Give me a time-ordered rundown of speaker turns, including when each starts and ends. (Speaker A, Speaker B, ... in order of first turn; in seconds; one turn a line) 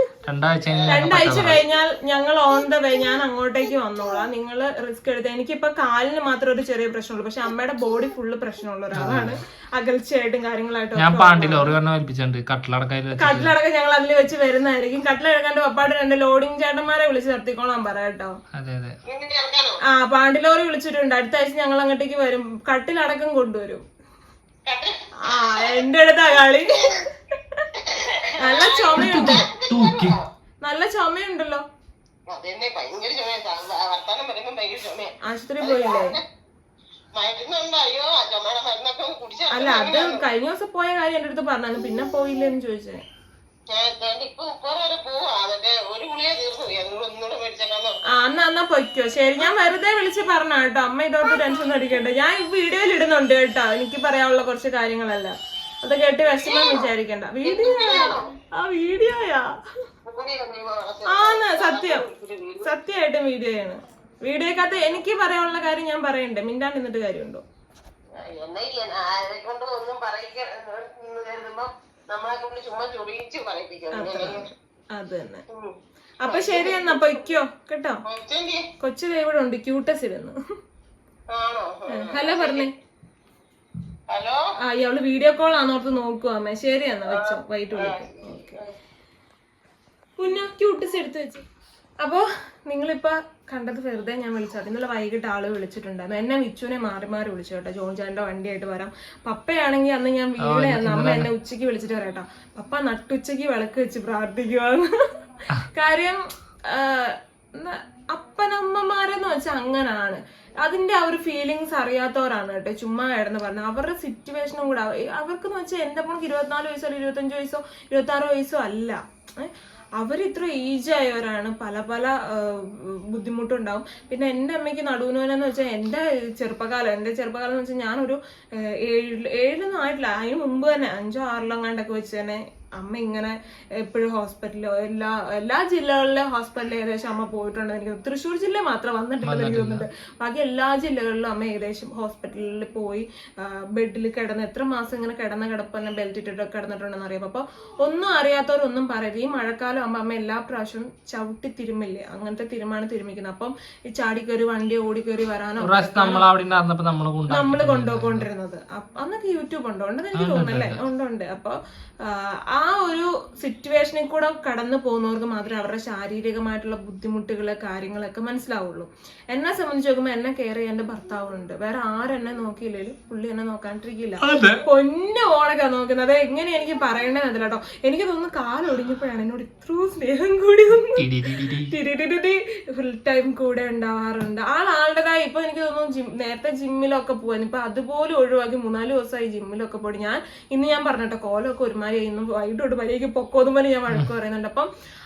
Speaker A: 0.2-1.6
Speaker B: 0.7-1.8
Speaker C: 0.9-11.8
Speaker A: 8.9-9.4
Speaker A: 10.9-13.5
Speaker C: 13.2-18.3
Speaker A: 18.6-18.9
Speaker B: 19.1-19.8
Speaker C: 19.9-23.8
Speaker B: 24.6-24.9
Speaker C: 25.3-27.6
Speaker B: 27.8-30.2
Speaker C: 28.4-29.4
Speaker A: 28.9-30.2
Speaker C: 30.6-31.6
Speaker B: 32.3-36.2
Speaker C: 35.2-36.2
Speaker B: 37.1-40.2
Speaker C: 39.5-43.0
Speaker B: 43.7-48.0
Speaker C: 48.1-59.4
Speaker B: 56.4-56.9
Speaker B: 57.4-58.3
Speaker B: 60.0-62.7
Speaker C: 61.1-62.0
Speaker C: 62.6-67.4
Speaker B: 68.2-74.5
Speaker C: 73.9-75.4
Speaker C: 76.2-78.0
Speaker B: 76.2-77.2
Speaker B: 78.0-78.6
Speaker C: 78.8-80.3
Speaker B: 81.3-82.7
Speaker C: 81.9-82.7
Speaker B: 84.1-84.4
Speaker C: 84.6-88.6
Speaker B: 87.1-88.8
Speaker C: 90.2-91.4
Speaker C: 92.0-104.8
Speaker A: 100.4-101.3
Speaker C: 105.7-106.2
Speaker C: 106.7-156.3
Speaker A: 139.2-139.8
Speaker A: 155.6-158.2
Speaker C: 157.3-194.7
Speaker A: 160.1-160.8
Speaker A: 174.2-174.6
Speaker A: 181.0-181.7